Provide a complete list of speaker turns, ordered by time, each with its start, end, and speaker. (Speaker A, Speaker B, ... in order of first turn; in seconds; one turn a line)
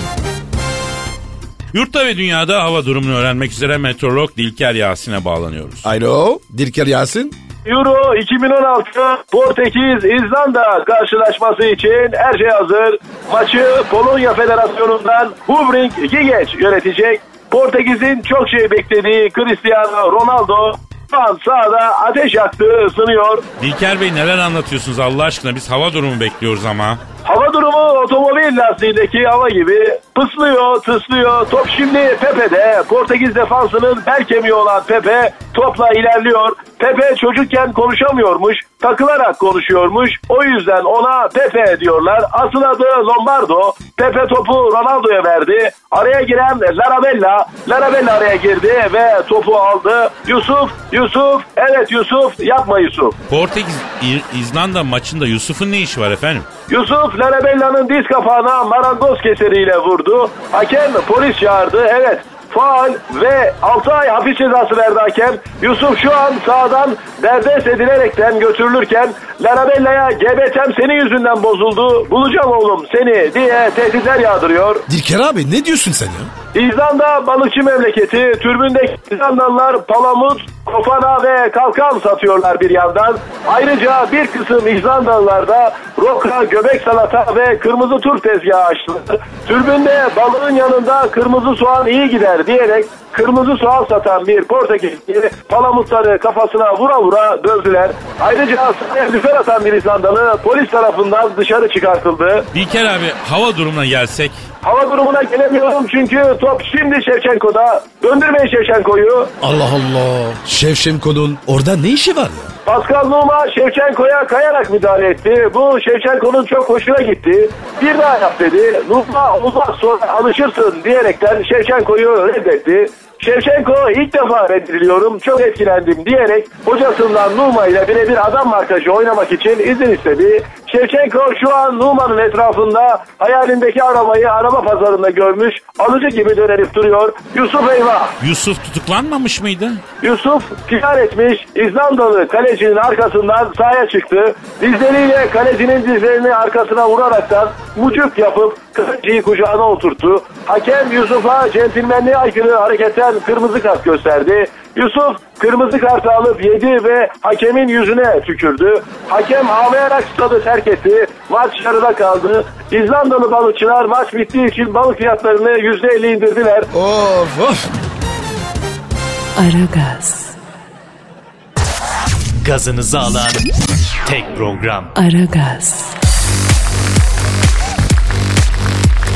Speaker A: 1.7-5.9
Speaker B: 5.8-7.4
Speaker C: 7.7-23.4
Speaker A: 23.6-27.0
Speaker C: 27.2-53.2
Speaker A: 53.3-56.5
Speaker C: 56.7-74.8
Speaker B: 74.9-76.3
Speaker C: 76.5-102.5
Speaker A: 102.5-104.4
Speaker C: 104.6-109.3
Speaker B: 109.4-112.5
Speaker C: 112.7-138.2
Speaker A: 138.2-139.8
Speaker C: 140.0-166.7
Speaker B: 166.7-167.7
Speaker D: 169.3-170.3
Speaker E: 172.4-173.4
Speaker E: 174.1-174.9
Speaker D: 174.9-175.9